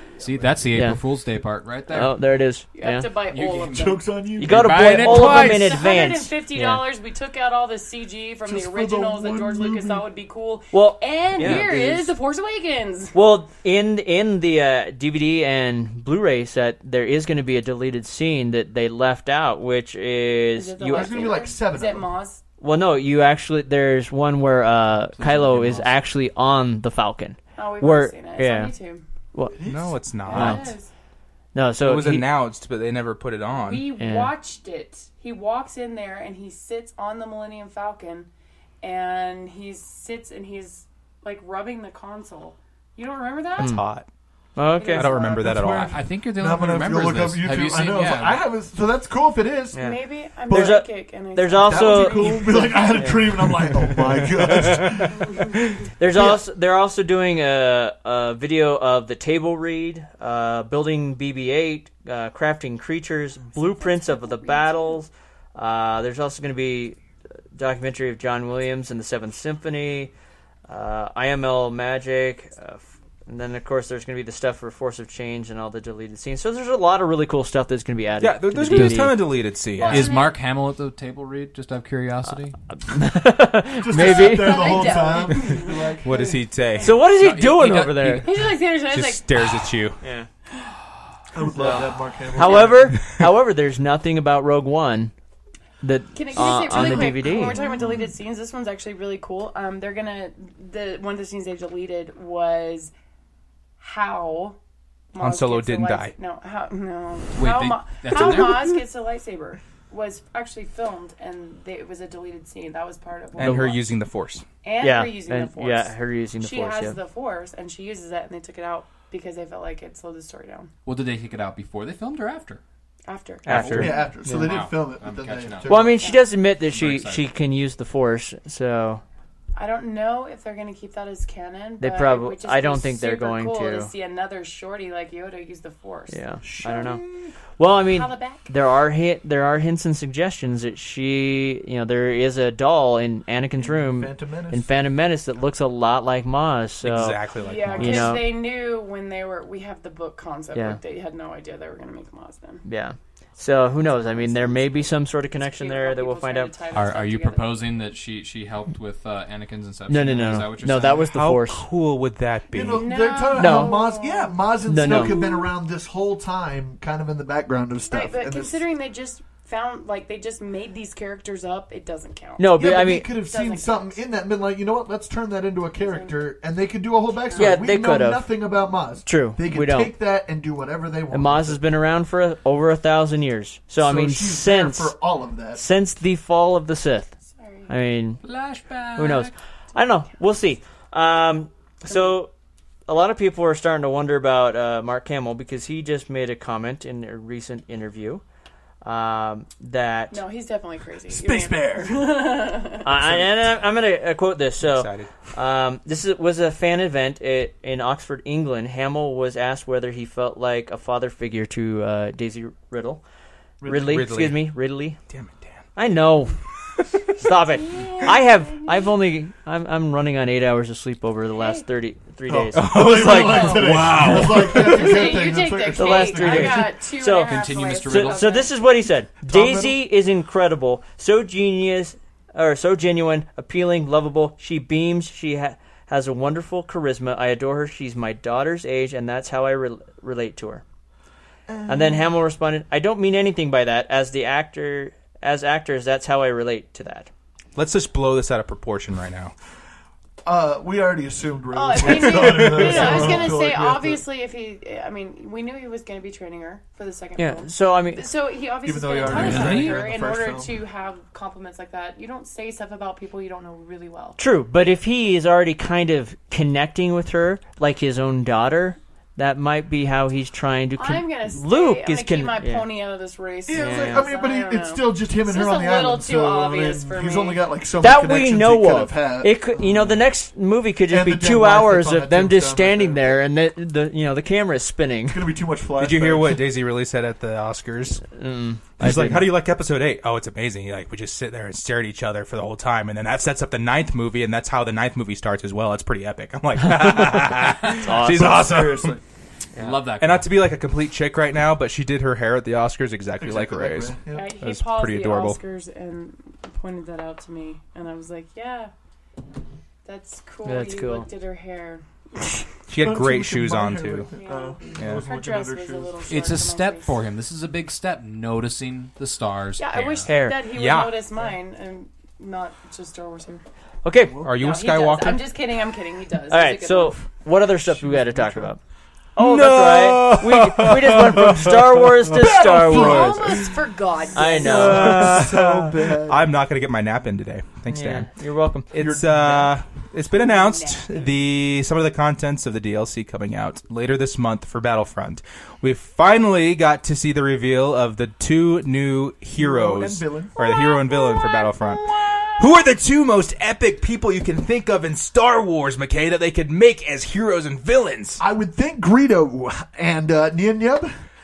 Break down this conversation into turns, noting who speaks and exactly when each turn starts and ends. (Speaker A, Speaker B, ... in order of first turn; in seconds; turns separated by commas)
Speaker A: 0.2-2.2, Speaker B: 0.2-0.6, Speaker C: 0.7-1.0, Speaker C: 1.9-3.1, Speaker D: 2.7-4.0, Speaker A: 3.3-5.8, Speaker B: 3.7-4.9, Speaker C: 4.4-6.8, Speaker D: 4.9-13.2, Speaker B: 8.4-10.1, Speaker C: 10.7-12.0, Speaker B: 11.5-11.8, Speaker C: 13.1-21.3, Speaker D: 20.5-22.4, Speaker B: 20.9-22.1, Speaker C: 22.6-28.7, Speaker A: 25.1-26.0, Speaker D: 27.6-29.0, Speaker B: 29.5-30.1, Speaker E: 29.6-30.7, Speaker D: 30.2-30.9, Speaker C: 30.3-30.7, Speaker C: 31.5-32.3, Speaker E: 31.8-33.9, Speaker D: 33.5-38.3, Speaker C: 34.0-34.3, Speaker D: 38.8-43.8, Speaker C: 43.6-43.8, Speaker E: 43.6-44.0, Speaker C: 44.5-45.1, Speaker D: 44.8-45.5, Speaker E: 44.9-46.0, Speaker B: 45.1-49.8, Speaker A: 45.9-48.4, Speaker C: 49.7-53.2, Speaker D: 49.8-53.1, Speaker B: 50.5-50.8, Speaker B: 51.6-55.3, Speaker E: 54.7-55.0, Speaker C: 56.0-67.0, Speaker D: 63.5-65.0, Speaker C: 67.5-70.1, Speaker C: 70.7-79.2, Speaker E: 78.2-80.1, Speaker A: 78.7-79.1, Speaker D: 79.8-80.4, Speaker A: 79.8-82.6, Speaker C: 82.3-85.0, Speaker B: 83.8-86.4, Speaker D: 83.9-86.0, Speaker E: 86.0-86.9, Speaker C: 86.8-88.3, Speaker A: 87.0-88.5, Speaker D: 88.2-89.7, Speaker E: 88.9-90.0, Speaker A: 90.0-90.3, Speaker B: 91.3-93.0, Speaker C: 91.5-95.1, Speaker C: 95.8-97.6, Speaker D: 96.1-102.9, Speaker D: 103.8-104.6, Speaker D: 105.1-113.8, Speaker E: 105.2-106.1, Speaker A: 107.3-108.8, Speaker E: 113.4-114.4, Speaker C: 113.4-113.7, Speaker D: 114.6-120.7, Speaker C: 114.8-117.0, Speaker A: 120.8-122.6, Speaker D: 123.1-124.0, Speaker C: 123.5-124.6, Speaker E: 123.5-123.9, Speaker B: 123.7-126.0, Speaker A: 124.3-126.0, Speaker C: 125.7-129.0, Speaker D: 126.0-126.2, Speaker A: 126.6-127.3, Speaker D: 129.6-137.2, Speaker C: 131.8-133.9, Speaker C: 136.1-137.0, Speaker B: 136.4-137.0, Speaker C: 137.6-148.2, Speaker D: 137.8-138.5, Speaker B: 143.6-144.7, Speaker E: 146.8-148.2, Speaker D: 147.4-152.6, Speaker C: 150.5-150.8, Speaker C: 152.6-156.5, Speaker D: 153.8-157.7, Speaker A: 156.7-161.1, Speaker C: 159.9-161.7, Speaker E: 161.1-162.9, Speaker B: 162.5-168.6, Speaker D: 162.7-165.5, Speaker C: 163.3-163.7, Speaker C: 164.7-165.2, Speaker D: 167.9-172.6, Speaker C: 172.4-173.1, Speaker B: 172.5-181.6, Speaker D: 173.2-174.0, Speaker D: 175.8-176.2, Speaker D: 177.3-177.6, Speaker C: 177.3-178.3, Speaker C: 179.0-179.9, Speaker C: 181.1-184.9, Speaker B: 183.8-185.6, Speaker C: 185.5-187.1, Speaker D: 187.3-187.7, Speaker C: 187.7-188.2, Speaker A: 188.2-189.3, Speaker C: 188.9-192.3, Speaker D: 191.9-192.1, Speaker C: 192.9-198.2, Speaker C: 198.8-200.2, Speaker D: 200.1-202.9, Speaker B: 201.1-202.1, Speaker C: 202.8-213.0, Speaker E: 204.6-205.1, Speaker B: 213.6-213.9, Speaker C: 213.7-215.0, Speaker E: 213.7-215.6, Speaker C: 215.8-216.4, Speaker E: 216.8-217.1, Speaker C: 217.2-223.6, Speaker D: 217.2-218.9, Speaker D: 221.3-221.6, Speaker B: 222.3-226.7, Speaker E: 222.5-224.8, Speaker D: 224.5-228.5, Speaker C: 225.7-240.6, Speaker A: 227.2-228.4, Speaker B: 229.2-229.8, Speaker B: 241.5-242.1, Speaker C: 241.7-247.1, Speaker E: 247.6-249.3, Speaker B: 250.2-254.0, Speaker D: 251.5-264.2, Speaker E: 252.3-252.9, Speaker C: 252.6-253.2, Speaker C: 257.2-258.0, Speaker B: 258.6-260.6, Speaker A: 259.1-259.8, Speaker C: 264.2-272.7, Speaker D: 270.8-277.4, Speaker B: 273.5-280.0, Speaker C: 273.5-274.1, Speaker C: 277.8-285.2, Speaker B: 280.9-283.2, Speaker B: 285.1-286.4, Speaker E: 285.8-288.0, Speaker C: 288.1-289.3, Speaker E: 288.8-299.0, Speaker C: 297.7-298.4, Speaker B: 297.9-299.0, Speaker A: 299.6-300.3, Speaker E: 300.0-305.4, Speaker B: 303.2-304.3, Speaker D: 304.1-308.7, Speaker D: 309.8-311.8, Speaker C: 310.4-311.1, Speaker E: 312.7-314.1, Speaker B: 312.8-316.2, Speaker D: 314.1-316.9, Speaker E: 314.8-315.1, Speaker A: 316.1-320.1, Speaker D: 319.6-323.4, Speaker C: 320.1-320.4, Speaker E: 320.5-321.0, Speaker C: 323.8-324.2, Speaker B: 324.1-324.3, Speaker E: 324.2-325.3, Speaker D: 324.4-327.0, Speaker C: 326.3-328.6, Speaker B: 327.6-328.5, Speaker C: 329.1-333.2, Speaker E: 329.2-332.9, Speaker B: 332.1-333.5, Speaker D: 332.6-335.0, Speaker C: 334.1-335.3, Speaker B: 334.3-336.2, Speaker E: 334.4-338.1, Speaker C: 337.7-338.7, Speaker E: 338.7-358.2, Speaker B: 338.8-339.6, Speaker D: 340.1-341.1, Speaker B: 349.4-350.3, Speaker D: 350.4-352.3, Speaker B: 358.2-360.9